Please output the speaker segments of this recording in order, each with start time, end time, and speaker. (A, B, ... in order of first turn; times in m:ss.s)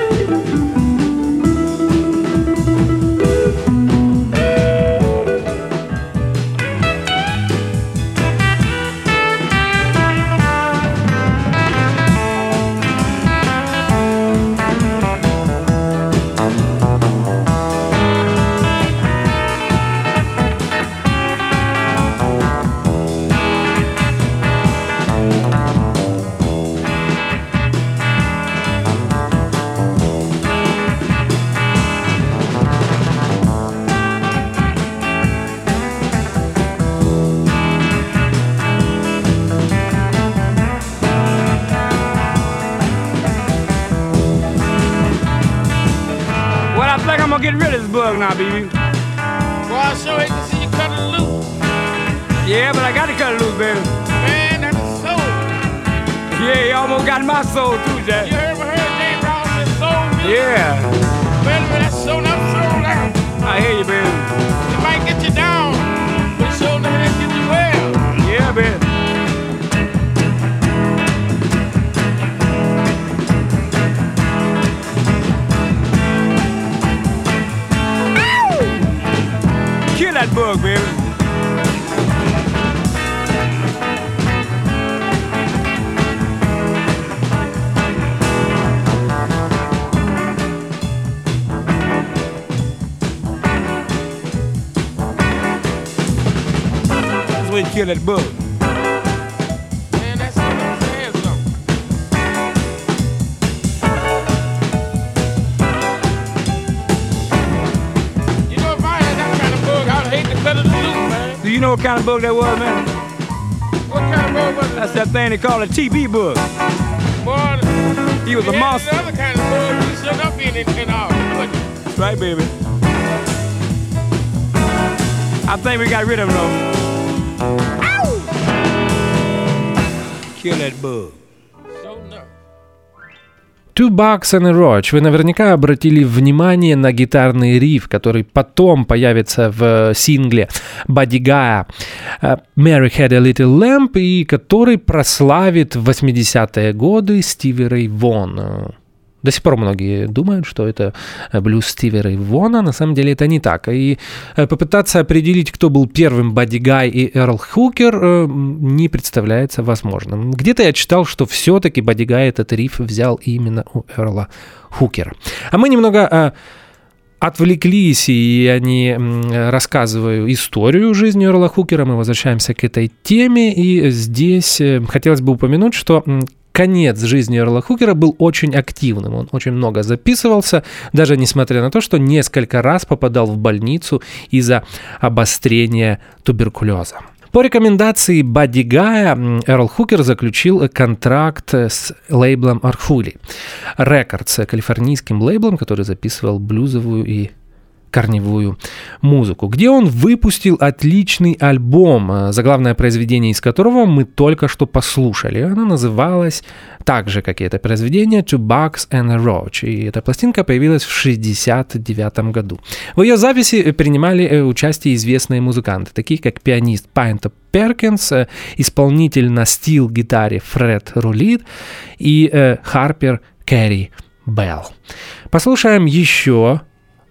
0:46.7-0:48.7 A
0:49.7-0:51.4 B
0:52.4-0:54.0 A
0:54.2-0:55.5 B
0:56.3-0:58.3 A
0:58.2-1:00.5 B
1:00.2-1:00.9 A
1:01.4-1:03.2 B
1:03.4-1:04.3 A
1:04.6-1:08.1 B
1:08.2-1:08.9 A
1:19.9-1:21.1 A
1:37.3-1:38.4 A
1:39.9-1:41.4 B
1:48.5-1:51.4 B
1:51.4-1:52.9 A
1:53.9-1:54.9 B
1:54.8-1:56.4 A
1:57.2-1:57.7 B
1:58.2-1:59.1 A
1:58.3-2:01.7 B
2:01.9-2:02.5 A
2:05.5-2:06.6 A
2:10.4-2:11.2 A
2:11.8-2:12.3 B
2:13.8-2:21.7 C
2:22.2-2:46.3 C
2:47.2-3:13.2 C
3:13.8-3:17.3 C
3:17.9-3:41.4 C
3:42.0-3:44.7 C
3:45.3-3:46.6 C